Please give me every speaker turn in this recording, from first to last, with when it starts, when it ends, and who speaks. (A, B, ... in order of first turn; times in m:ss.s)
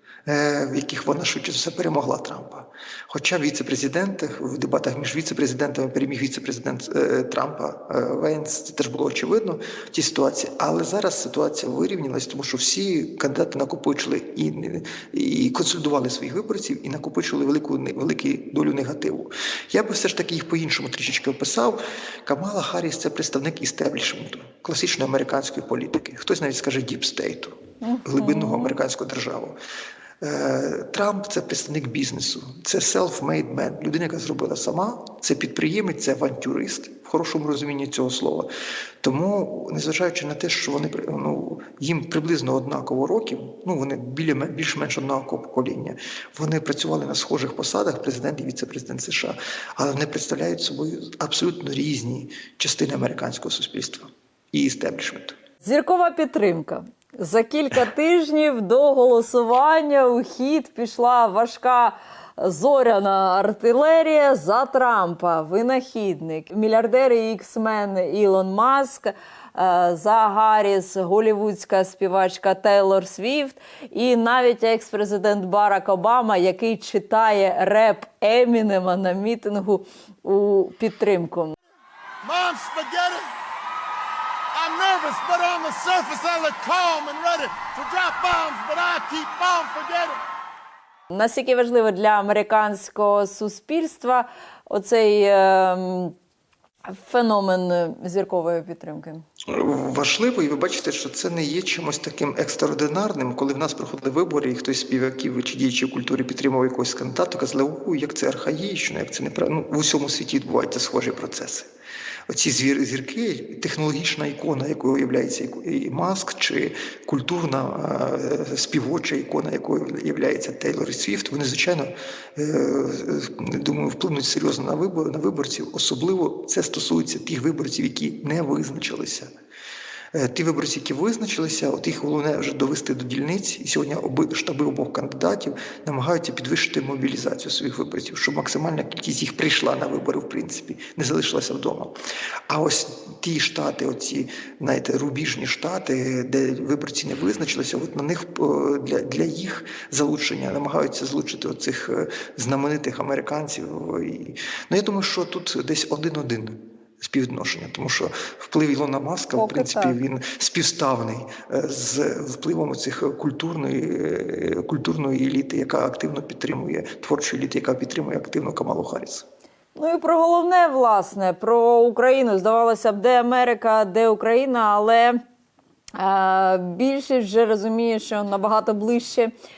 0:00.2-0:29.6 A
0:27.8-0:28.8 B
0:30.2-0:38.5 A
0:39.0-0:55.4 A
0:55.6-1:21.6 B
1:22.2-1:23.2 C
1:24.5-1:30.2 C
1:31.1-1:36.1 B
1:36.9-1:39.2 B
1:39.5-1:51.7 A
1:52.3-2:09.3 A
2:10.1-2:22.0 A
2:22.5-2:49.3 A
2:39.4-2:40.0 B
2:49.8-2:55.2 B
2:56.0-2:59.3 B